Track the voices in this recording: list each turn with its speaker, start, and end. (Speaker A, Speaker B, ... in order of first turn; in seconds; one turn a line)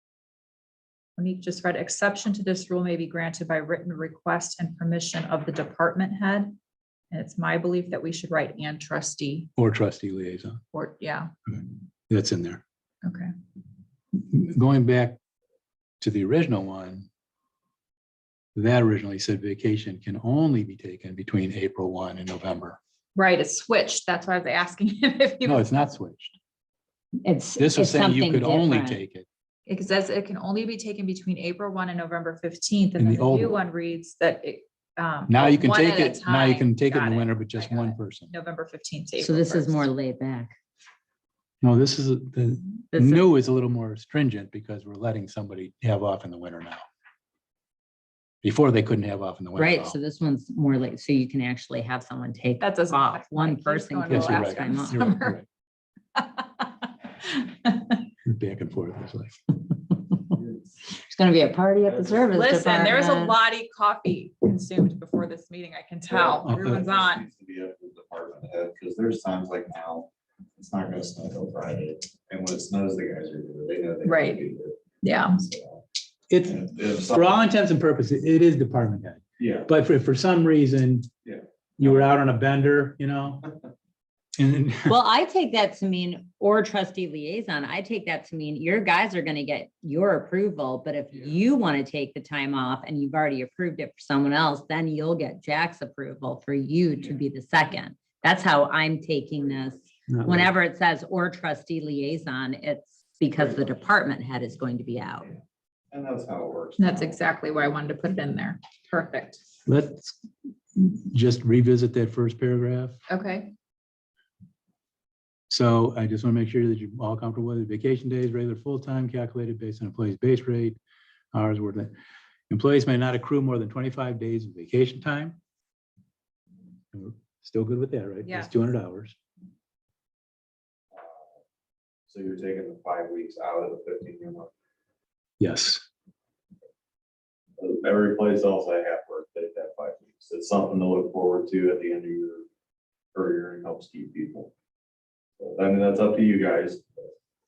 Speaker A: 1.2-6.6
Speaker A: 7.1-9.5
Speaker B: 9.6-10.6
Speaker A: 10.7-11.3
Speaker B: 11.5-12.6
Speaker A: 13.0-13.3
Speaker B: 14.1-15.2
Speaker B: 16.0-17.1
Speaker B: 18.6-22.8
Speaker A: 23.1-25.7
Speaker B: 25.4-26.4
Speaker C: 27.2-29.0
Speaker B: 27.6-29.3
Speaker A: 29.7-39.9
Speaker B: 33.0-33.6
Speaker B: 35.3-38.3
Speaker C: 39.2-40.5
Speaker B: 41.6-46.8
Speaker C: 42.9-43.3
Speaker B: 48.4-50.0
Speaker C: 49.6-55.0
Speaker A: 52.6-55.4
Speaker B: 54.1-55.4
Speaker A: 56.1-58.0
Speaker B: 58.2-59.4
Speaker D: 60.3-60.7
Speaker C: 61.0-63.4
Speaker D: 61.9-62.2
Speaker A: 62.3-67.3
Speaker D: 66.1-74.8
Speaker B: 66.4-66.8
Speaker A: 74.0-74.4
Speaker A: 75.0-75.4
Speaker D: 75.3-75.8
Speaker B: 76.3-81.1
Speaker D: 76.4-77.4
Speaker D: 79.4-79.7
Speaker D: 81.2-82.1
Speaker B: 81.8-83.5
Speaker B: 84.4-85.0
Speaker C: 84.9-105.3
Speaker D: 97.0-97.2
Speaker D: 99.4-99.9
Speaker B: 100.1-100.5
Speaker D: 103.3-103.8
Speaker D: 105.9-107.2
Speaker A: 106.8-109.4
Speaker B: 109.7-110.2
Speaker B: 110.8-113.0
Speaker A: 113.1-113.5
Speaker B: 115.5-120.8
Speaker B: 121.3-121.9
Speaker B: 122.5-125.4
Speaker B: 126.9-129.2
Speaker A: 128.2-128.6
Speaker D: 130.9-131.4
Speaker D: 132.1-134.5
Speaker B: 135.4-135.8
Speaker D: 137.6-142.5
Speaker D: 143.1-144.5
Speaker D: 145.4-147.1